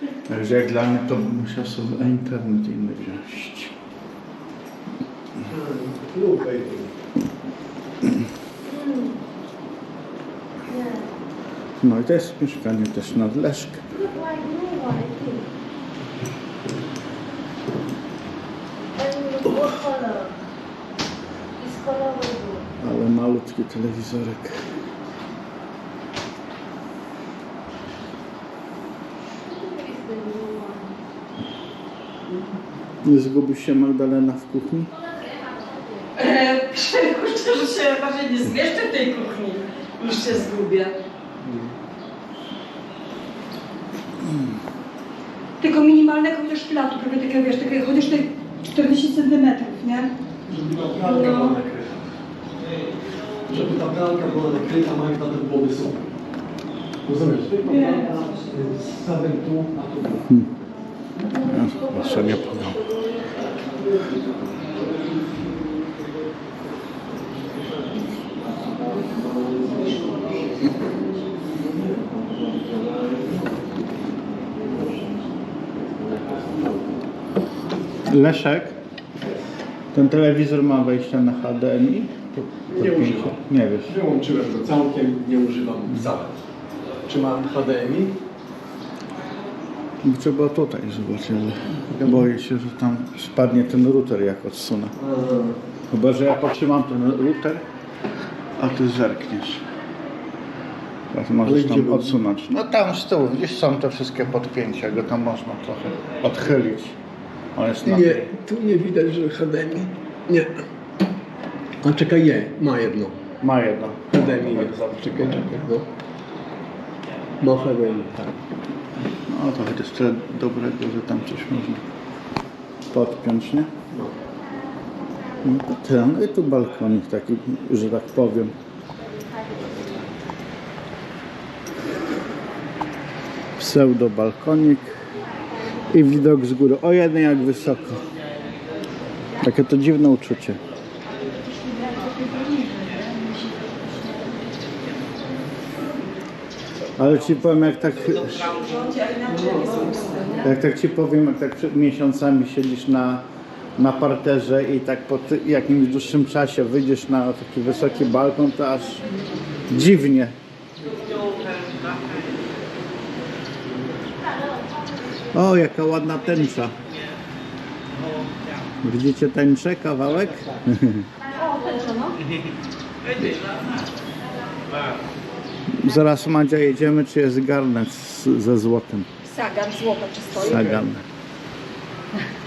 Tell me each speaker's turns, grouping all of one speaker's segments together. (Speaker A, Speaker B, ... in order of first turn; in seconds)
Speaker A: 0.3-3.7, 11.8-14.0, 22.8-24.6, 33.0-34.9, 61.4-62.9, 78.1-78.8, 79.9-84.0, 90.0-94.9, 95.9-97.6, 98.6-99.6, 101.1-107.0, 107.6-108.3, 113.4-115.5, 119.3-121.8, 122.9-123.7, 125.4-128.6, 133.6-134.9, 135.9-138.1, 139.4-140.6, 147.0-148.6, 150.4-153.2, 153.8-159.0, 159.7-160.3, 165.3-166.7, 168.8-171.1, 175.7-179.1, 180.3-181.1
Speaker B: 5.5-6.9, 41.4-41.8, 50.5-52.1, 53.5-56.1, 57.0-60.3, 82.7-83.4, 83.9-86.3, 87.1-88.2, 95.0-95.6, 101.4-102.2, 107.8-110.6, 111.8-113.2, 114.1-115.9, 117.4-118.3, 149.3-150.4
Speaker C: 8.7-9.1, 14.2-15.4, 19.0-19.5, 21.6-22.5, 36.1-40.9, 45.6-50.1, 51.1-51.6, 57.6-58.1, 141.5-144.5, 148.6-150.5, 171.4-172.2, 179.2-180.6